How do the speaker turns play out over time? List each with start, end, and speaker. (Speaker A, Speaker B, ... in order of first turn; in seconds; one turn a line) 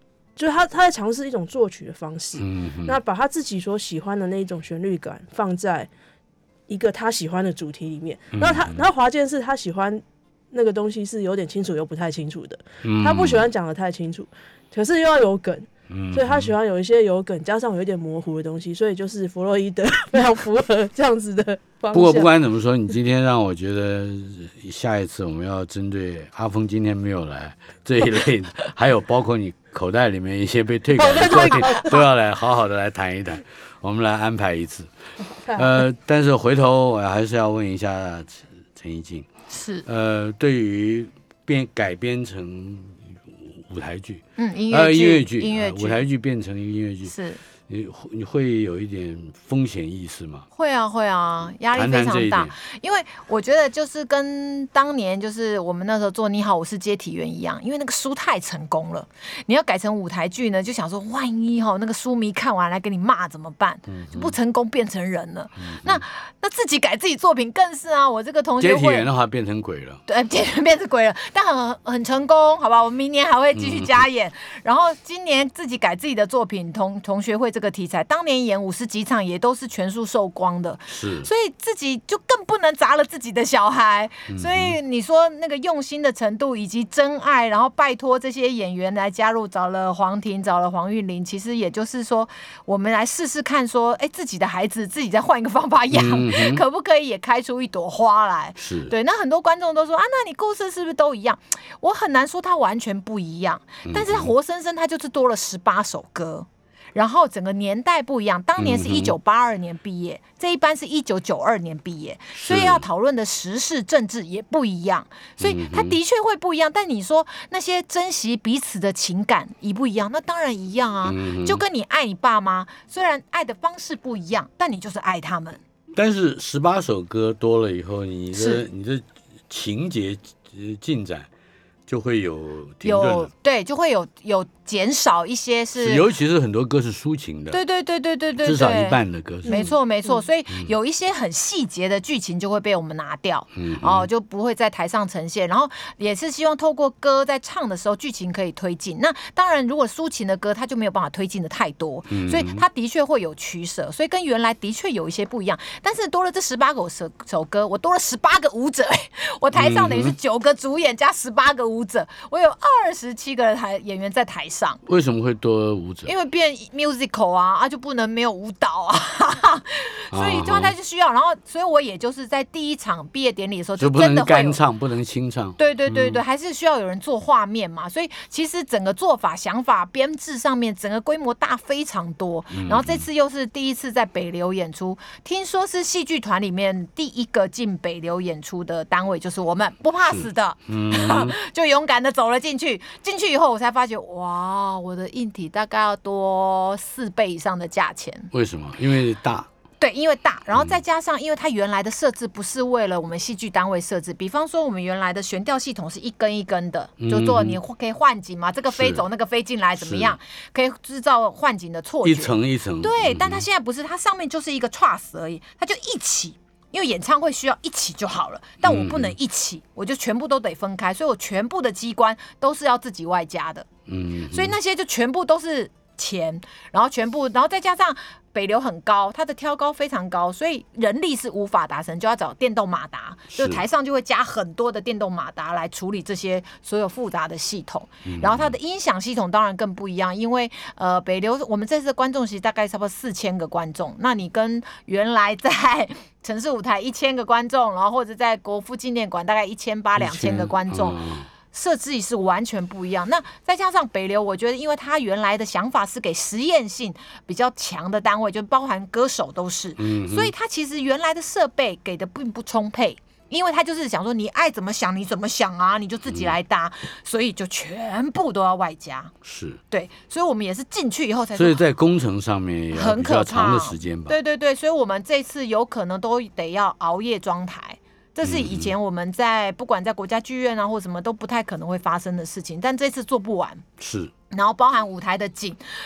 Speaker A: 0.3-5.9
Speaker B: 2.4-3.0
Speaker A: 6.7-22.3
Speaker B: 8.3-8.8
Speaker B: 12.8-13.4
Speaker B: 15.9-16.5
Speaker B: 21.9-34.9
Speaker A: 31.0-31.9
Speaker A: 35.4-35.8
Speaker B: 35.5-39.3
Speaker C: 39.5-39.8
Speaker B: 39.8-47.1
Speaker C: 44.4-46.0
Speaker C: 47.0-47.4
Speaker B: 47.7-50.5
Speaker C: 50.5-69.1
Speaker B: 51.7-52.5
Speaker B: 63.9-64.3
Speaker B: 65.6-66.0
Speaker B: 68.6-70.0
Speaker C: 70.1-125.6
Speaker B: 73.5-74.0
Speaker B: 80.9-81.3
Speaker B: 84.3-84.8
Speaker B: 95.9-96.6
Speaker B: 98.6-98.9
Speaker B: 103.8-104.3
Speaker B: 108.6-109.2
Speaker B: 112.3-112.8
Speaker B: 115.4-116.0
Speaker B: 121.0-121.6
Speaker B: 125.9-131.3
Speaker C: 128.3-128.6
Speaker B: 131.9-133.3
Speaker C: 132.8-136.1
Speaker B: 135.7-137.6
Speaker C: 137.5-164.8
Speaker B: 138.4-139.7
Speaker A: 139.4-140.2
Speaker B: 143.6-144.1
Speaker B: 152.1-152.6
Speaker B: 159.5-160.1
Speaker B: 164.8-166.1
Speaker C: 166.1-174.6
Speaker B: 170.1-170.7
Speaker B: 173.8-176.2
Speaker C: 175.6-198.3
Speaker B: 182.5-183.1
Speaker B: 190.1-191.3
Speaker B: 198.3-199.5
Speaker C: 199.8-223.7
Speaker B: 200.5-200.8
Speaker B: 207.0-207.6
Speaker B: 208.7-209.0
Speaker B: 209.8-210.2
Speaker B: 212.0-213.4
Speaker B: 218.6-219.2
Speaker B: 223.9-224.6
Speaker C: 224.3-269.1
Speaker B: 233.3-233.6
Speaker B: 238.0-238.6
Speaker B: 250.0-251.3
Speaker B: 259.8-260.3
Speaker B: 266.1-266.4
Speaker B: 269.2-269.6
Speaker C: 269.7-271.6
Speaker B: 271.3-274.2
Speaker C: 272.7-283.6
Speaker B: 278.2-278.7
Speaker B: 283.8-284.1
Speaker C: 284.3-285.6